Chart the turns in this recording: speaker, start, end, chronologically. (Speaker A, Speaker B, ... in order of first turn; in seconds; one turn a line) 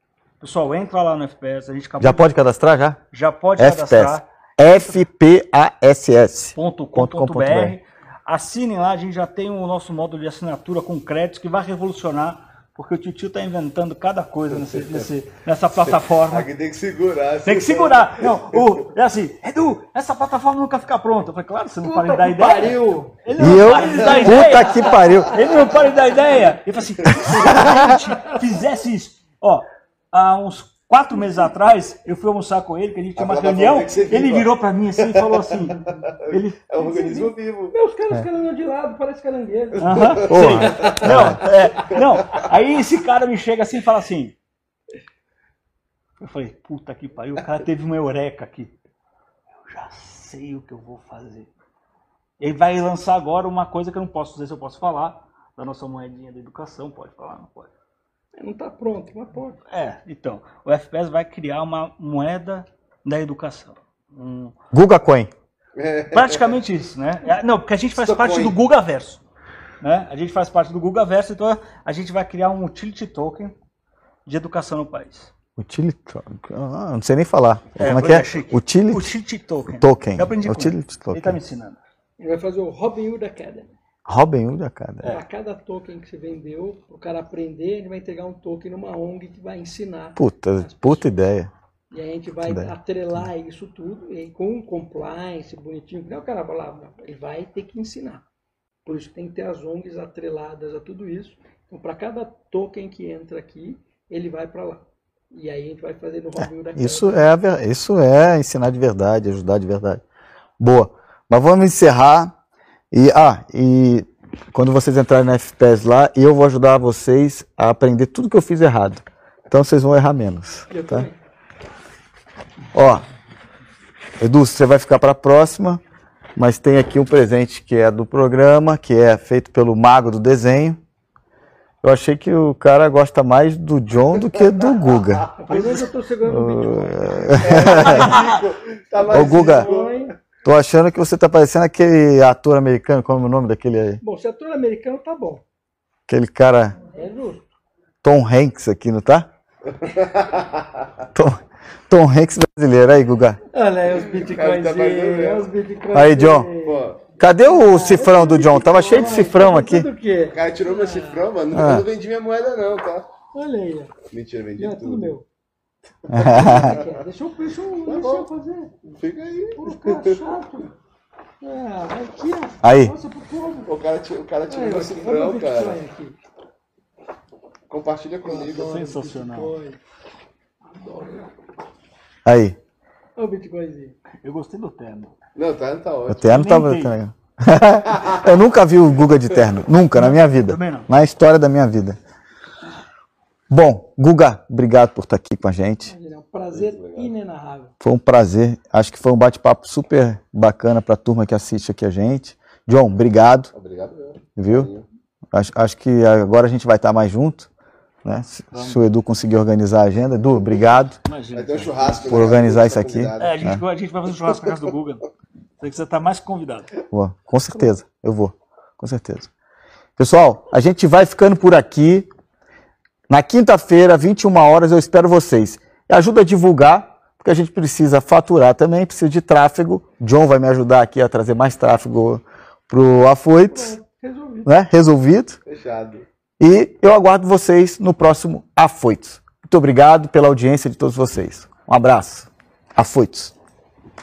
Speaker A: 0.4-2.3
Speaker B: 2.0-3.0
Speaker A: 3.1-5.0
Speaker B: 3.6-7.8
Speaker A: 6.5-16.5
Speaker C: 14.7-15.0
Speaker C: 15.9-18.8
Speaker A: 17.4-36.6
Speaker D: 21.8-25.8
Speaker B: 23.4-25.3
Speaker B: 27.4-27.8
Speaker C: 33.1-37.7
Speaker D: 36.8-41.0
Speaker A: 39.8-44.4
Speaker C: 39.8-42.4
Speaker B: 40.3-41.4
Speaker A: 46.2-48.7
Speaker A: 49.6-51.5
Speaker A: 52.4-57.7
Speaker D: 58.4-59.6
Speaker A: 59.7-64.5
Speaker B: 64.7-65.3
Speaker C: 65.8-66.5
Speaker A: 66.1-69.2
Speaker C: 67.9-68.6
Speaker A: 69.8-73.5
Speaker A: 74.2-75.3
Speaker B: 75.6-79.1
Speaker A: 77.8-81.8
Speaker B: 79.8-81.4
Speaker D: 82.2-83.8
Speaker B: 84.0-85.1
Speaker D: 85.0-91.2
Speaker B: 90.2-91.5
Speaker D: 91.9-98.2
Speaker B: 92.4-93.2
Speaker D: 98.8-107.2
Speaker B: 106.4-110.0
Speaker B: 110.6-112.3
Speaker B: 112.9-121.1
Speaker D: 120.7-121.1
Speaker B: 122.7-123.0
Speaker B: 124.2-125.8
Speaker B: 126.3-130.8
Speaker B: 131.8-135.3
Speaker C: 134.8-135.3
Speaker D: 135.4-138.2
Speaker A: 135.5-135.8
Speaker B: 136.2-138.1
Speaker C: 137.4-140.1
Speaker D: 139.0-140.1
Speaker B: 139.1-139.7
Speaker B: 140.4-144.0
Speaker D: 144.0-145.4
Speaker B: 146.1-146.8
Speaker D: 146.9-147.5
Speaker B: 148.0-149.3
Speaker C: 149.7-150.9
Speaker B: 151.1-153.4
Speaker D: 153.5-161.3
Speaker C: 154.1-155.5
Speaker B: 155.9-156.5
Speaker C: 156.6-157.0
Speaker B: 157.2-159.9
Speaker C: 160.3-163.1
Speaker B: 161.5-161.9
Speaker D: 163.3-163.9
Speaker C: 164.1-165.1
Speaker D: 164.6-165.2
Speaker B: 166.1-166.7
Speaker C: 166.1-167.0
Speaker D: 166.2-168.9
Speaker C: 167.8-168.3
Speaker C: 169.0-170.2
Speaker D: 169.6-170.7
Speaker D: 171.4-173.7
Speaker B: 172.6-172.9
Speaker C: 173.7-175.8
Speaker D: 174.5-176.2
Speaker C: 177.7-178.8
Speaker D: 178.2-179.8
Speaker A: 178.5-179.5
Speaker D: 180.6-181.3
Speaker B: 182.2-182.6
Speaker D: 183.2-183.9
Speaker A: 184.2-185.1
Speaker C: 185.3-186.3
Speaker B: 186.1-192.0
Speaker A: 186.2-187.0
Speaker C: 187.8-188.2
Speaker A: 189.9-190.9
Speaker B: 193.5-195.9
Speaker D: 195.8-197.7
Speaker C: 196.5-197.1
Speaker B: 197.8-203.5
Speaker C: 203.5-204.8
Speaker B: 204.4-204.7
Speaker B: 205.3-207.5
Speaker B: 208.0-210.9
Speaker A: 208.5-208.8
Speaker A: 211.0-212.2
Speaker C: 211.3-213.5
Speaker B: 212.1-213.6
Speaker A: 213.2-215.0
Speaker A: 215.6-216.7
Speaker B: 216.9-219.3
Speaker B: 220.0-222.1
Speaker B: 223.1-233.7
Speaker D: 233.5-234.6
Speaker B: 234.4-235.4
Speaker C: 235.4-236.1
Speaker B: 236.4-243.3